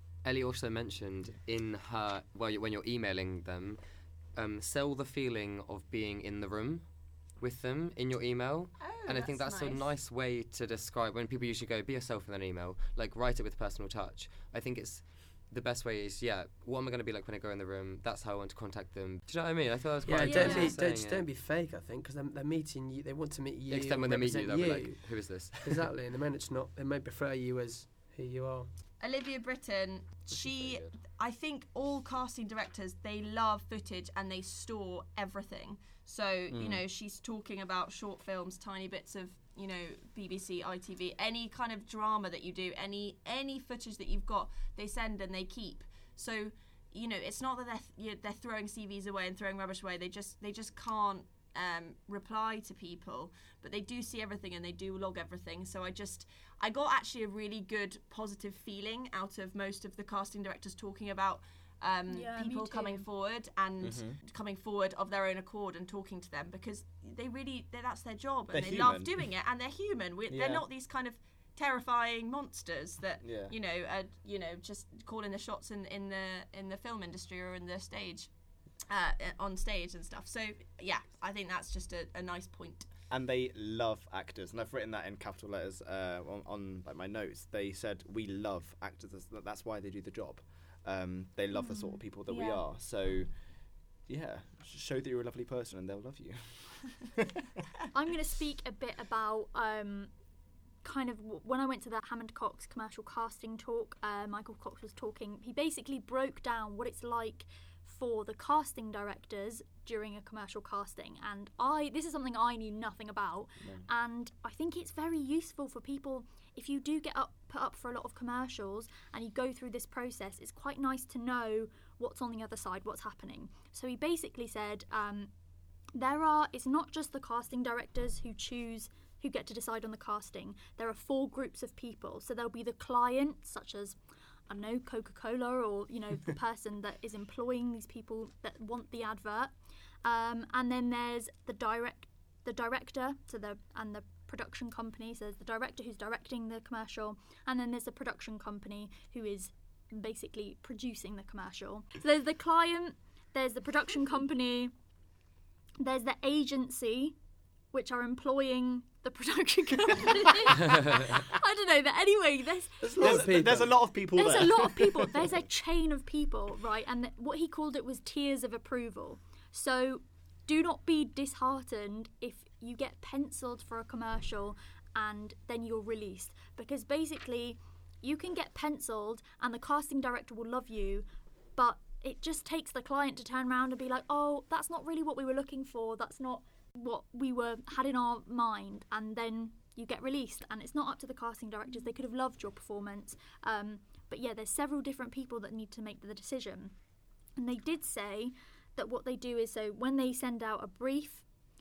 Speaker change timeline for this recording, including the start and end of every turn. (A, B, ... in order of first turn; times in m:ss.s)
0:00.2-0:21.2 A
0:08.8-0:09.8 B
0:20.0-0:28.7 C
0:20.2-0:20.8 D
0:23.7-0:25.9 A
0:29.0-1:22.9 B
0:30.3-0:30.9 E
0:36.5-0:36.8 E
1:02.1-1:03.1 D
1:03.8-1:04.2 E
1:08.5-1:09.3 E
1:10.3-1:10.6 E
1:13.2-1:13.5 E
1:23.1-1:33.4 E
1:31.5-1:32.0 D
1:31.7-1:32.6 B
1:34.0-1:37.5 E
1:37.9-1:40.1 D
1:40.8-2:05.3 D
1:53.6-1:53.8 E
2:06.0-2:34.7 D
2:35.8-2:37.1 D
2:37.7-2:43.3 D
2:42.8-2:43.9 C
2:43.0-2:45.3 E
2:44.1-3:16.7 D
3:17.4-3:21.2 D